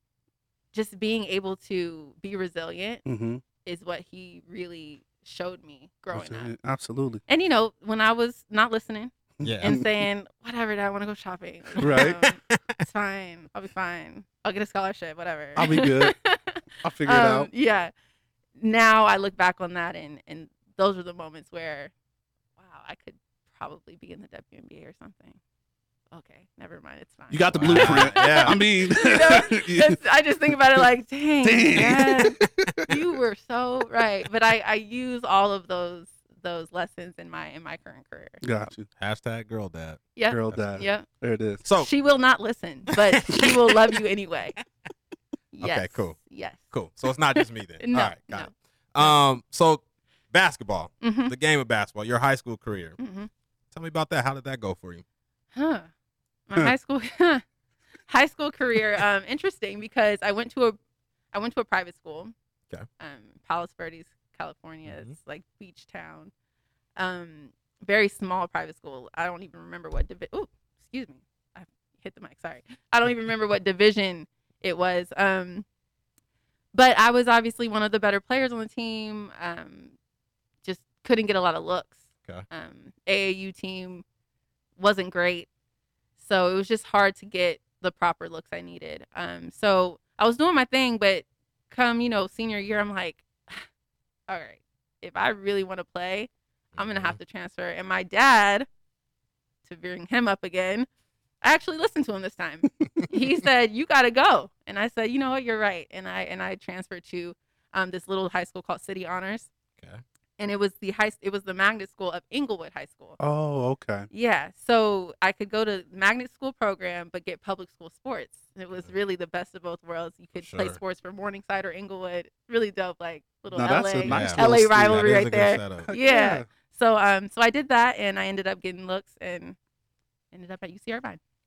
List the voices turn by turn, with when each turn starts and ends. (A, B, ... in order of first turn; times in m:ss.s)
0:00.7-0:03.0 A
0:03.1-0:03.4 B
0:03.6-0:06.5 A
0:06.1-0:07.2 B
0:07.3-0:17.9 A
0:09.4-0:10.1 B
0:09.4-0:09.8 C
0:11.8-0:12.8 C
0:11.8-0:12.2 B
0:15.6-0:16.2 B
0:16.8-0:17.5 B
0:18.6-0:21.9 A
0:22.6-0:25.4 A
0:26.1-0:38.4 A
0:27.3-0:30.0 B
0:27.5-0:28.6 C
0:31.4-0:32.9 B
0:38.4-0:38.9 B
0:38.9-0:40.7 C
0:40.2-0:41.0 A
0:40.3-0:41.6 B
0:41.7-0:44.6 A
0:43.0-0:43.7 C
0:45.5-0:46.7 A
0:45.6-0:53.0 C
0:47.4-0:49.1 A
0:51.0-0:51.3 A
0:53.0-0:53.3 A
0:53.7-0:55.0 C
0:55.6-0:55.9 A
0:56.5-0:57.4 A
0:58.1-1:00.8 A
1:01.3-1:02.3 A
1:03.0-1:06.3 A
1:04.9-1:05.1 C
1:07.0-1:15.6 A
1:16.7-1:20.0 A
1:20.6-1:24.0 A
1:24.8-1:25.5 A
1:26.2-1:33.6 A
1:34.3-1:38.7 A
1:36.7-1:37.2 C
1:39.6-1:40.9 A
1:41.4-1:49.5 A
1:50.4-1:53.2 A
1:53.2-1:54.1 B
1:54.1-2:09.6 A
2:00.4-2:00.8 C
2:03.5-2:05.1 B
2:04.1-2:05.9 C
2:05.9-2:06.5 B
2:10.3-2:11.2 A